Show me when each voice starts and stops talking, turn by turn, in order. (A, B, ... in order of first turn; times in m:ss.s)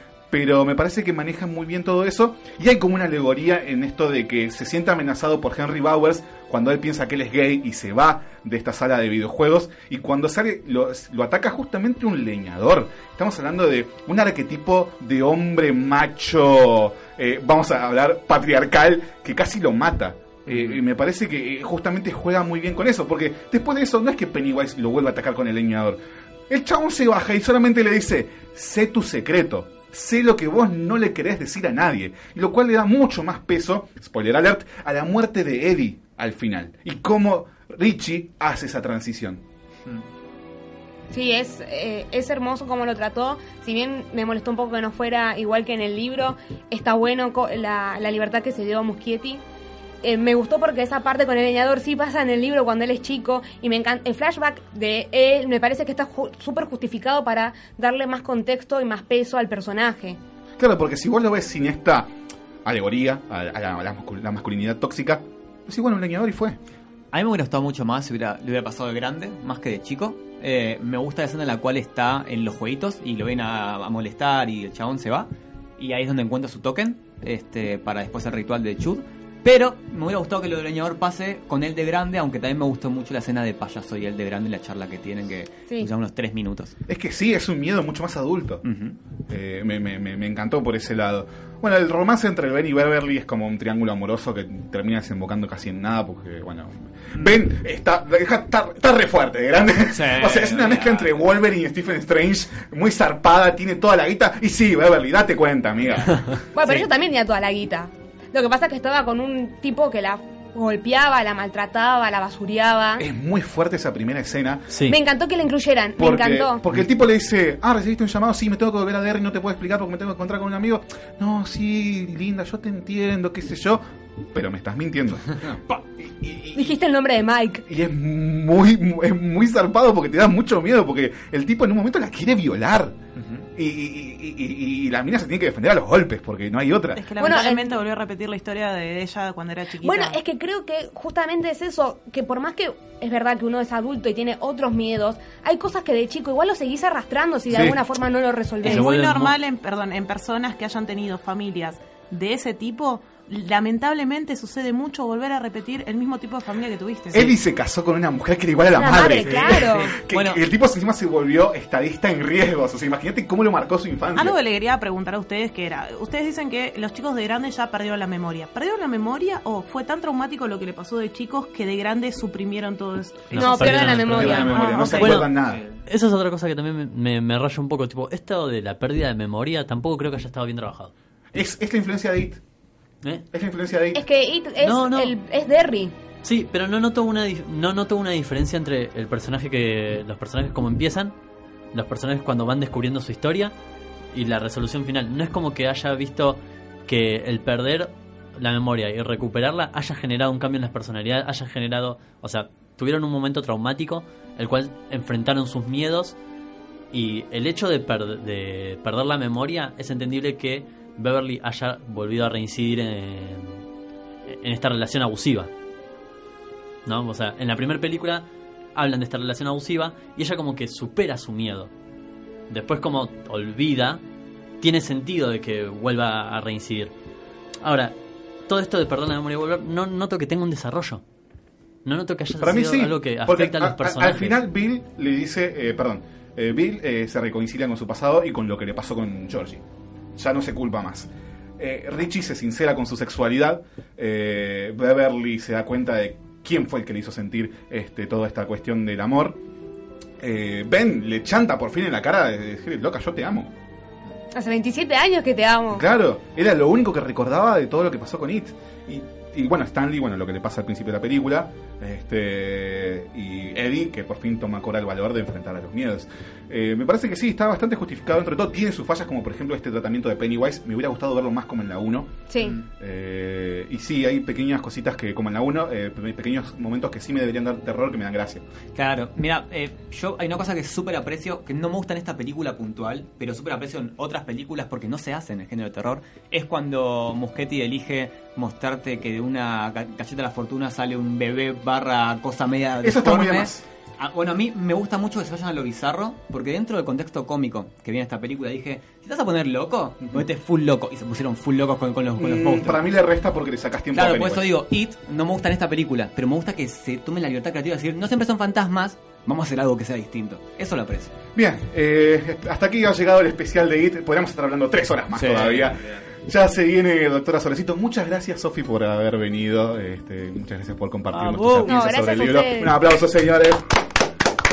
0:00.3-0:39.4 A
0:20.5-0:20.8 B
0:41.1-0:49.4 C
0:50.0-1:00.2 C
1:00.6-1:02.1 A
1:02.6-1:06.6 A
1:07.1-1:26.8 B
1:26.9-1:28.6 A
1:28.6-1:29.0 B
1:29.3-1:46.3 A
1:39.9-1:41.2 B
1:46.5-1:53.0 C
1:53.0-1:54.7 A
1:54.7-1:55.0 D
1:54.8-1:56.6 C
1:56.0-2:06.8 A
2:06.6-2:07.6 C
2:07.6-2:13.0 A
2:13.6-2:17.2 A
2:17.0-2:20.2 E
2:17.2-2:17.7 C
2:19.8-2:28.9 C
2:27.5-2:27.8 A
2:28.6-2:29.4 D
2:28.6-2:37.4 E
2:37.1-2:44.4 A
2:38.8-2:39.9 C
2:39.2-2:40.4 B
2:44.2-2:53.8 E
2:53.3-2:55.3 D
2:53.3-2:55.2 C
2:53.9-2:55.6 A
2:55.3-2:55.8 B
2:55.9-3:00.9 D
3:01.3-3:02.4 A
3:03.3-3:04.0 A
3:03.9-3:05.9 C
3:04.6-3:05.1 D
3:06.2-3:11.1 D
3:11.7-3:13.5 D
3:14.1-3:26.2 D
3:26.9-3:33.6 D
3:34.3-3:35.5 D
3:36.9-3:41.7 D
3:42.5-3:44.0 D
3:44.6-3:46.9 D
3:47.6-3:48.0 D
3:48.5-3:51.0 D
3:51.8-3:54.4 D
3:52.4-3:59.6 A
4:00.2-4:09.4 A
4:10.2-4:13.5 A
4:14.4-4:15.8 C
4:15.7-4:38.4 A
4:32.3-4:32.6 C
4:38.8-5:02.8 B
4:52.8-4:53.6 A
5:02.2-5:04.5 A
5:03.9-5:11.1 B
5:11.4-5:23.6 A
5:15.2-5:15.9 B
5:21.1-5:21.8 D
5:21.6-5:22.8 C